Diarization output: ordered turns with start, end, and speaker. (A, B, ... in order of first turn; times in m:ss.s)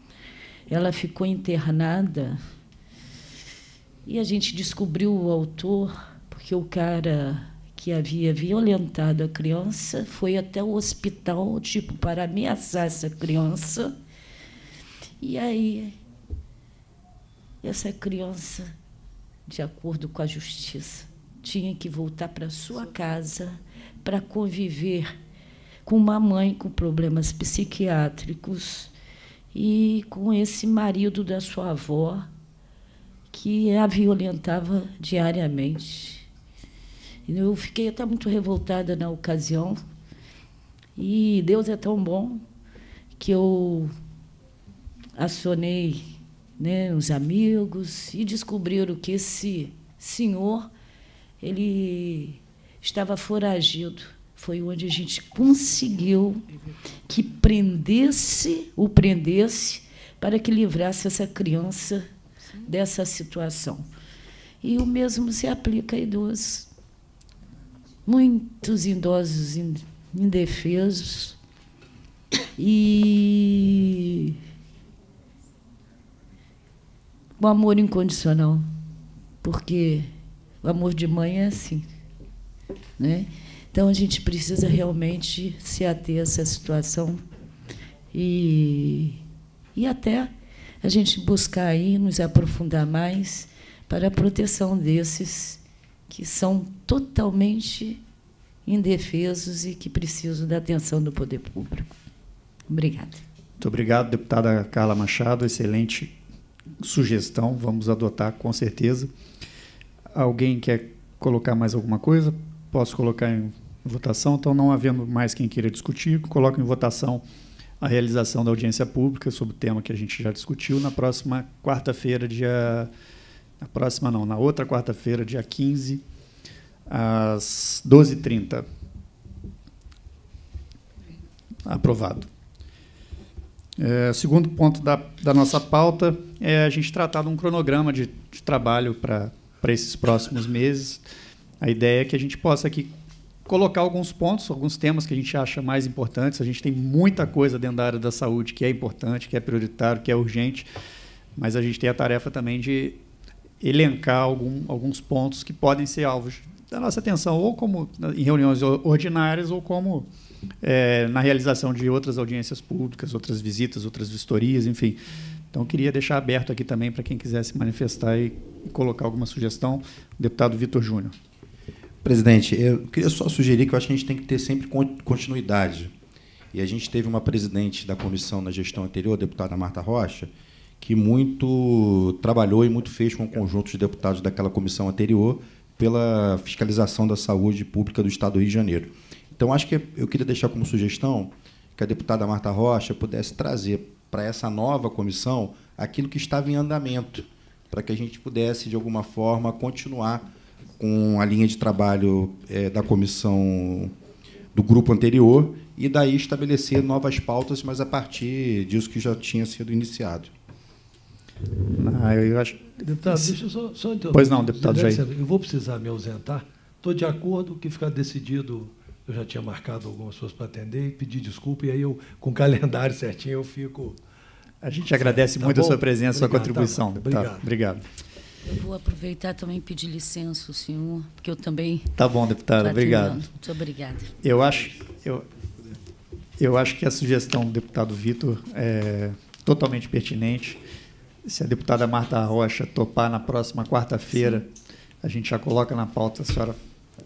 0:00.7-0:02.4 A
0:04.0-0:14.0 A
0:15.2-0:16.0 A
0:17.6-0:18.7 A
0:19.5-0:25.2 A
0:25.8-0:28.9 A
0:29.5-0:32.3 A
0:33.3-0:36.3 A
0:37.2-0:39.8 A
0:41.0-0:42.4 A
0:43.2-0:43.9 A
0:45.2-0:50.7 A
0:51.4-0:56.5 A
0:57.0-1:02.1 A
1:02.6-1:03.8 A
1:04.6-1:06.7 A
1:08.0-1:11.4 A
1:12.6-1:14.4 A
1:17.4-1:18.7 A
1:19.4-1:20.1 A
1:20.6-1:21.9 A
1:23.0-1:27.2 A
1:28.1-1:29.2 A
1:29.7-1:38.0 A
1:38.6-1:42.0 A
1:42.7-1:43.2 A
1:43.6-1:46.1 B
1:46.8-1:49.1 B
1:50.1-1:57.2 B
1:57.8-2:02.9 B
2:03.6-2:06.0 B
2:06.9-2:08.6 B
2:11.6-2:12.3 B
2:13.8-2:21.0 B
2:21.6-2:22.9 B
2:23.4-2:30.7 B
2:31.4-2:33.0 B
2:33.6-2:40.1 B
2:40.6-2:51.1 B
2:52.0-2:55.9 C
2:56.5-3:20.2 C
3:20.8-3:23.9 C
3:24.5-3:30.3 C
3:31.7-3:33.3 B
3:32.8-3:44.0 D
3:34.1-3:35.0 B
3:44.6-3:47.8 B
3:45.0-3:47.4 D
3:48.4-3:51.9 A
3:52.0-3:53.2 B
3:52.6-3:54.1 A
3:54.2-3:55.2 B
3:56.4-4:00.6 B
4:01.2-4:04.5 B
4:05.0-4:06.6 B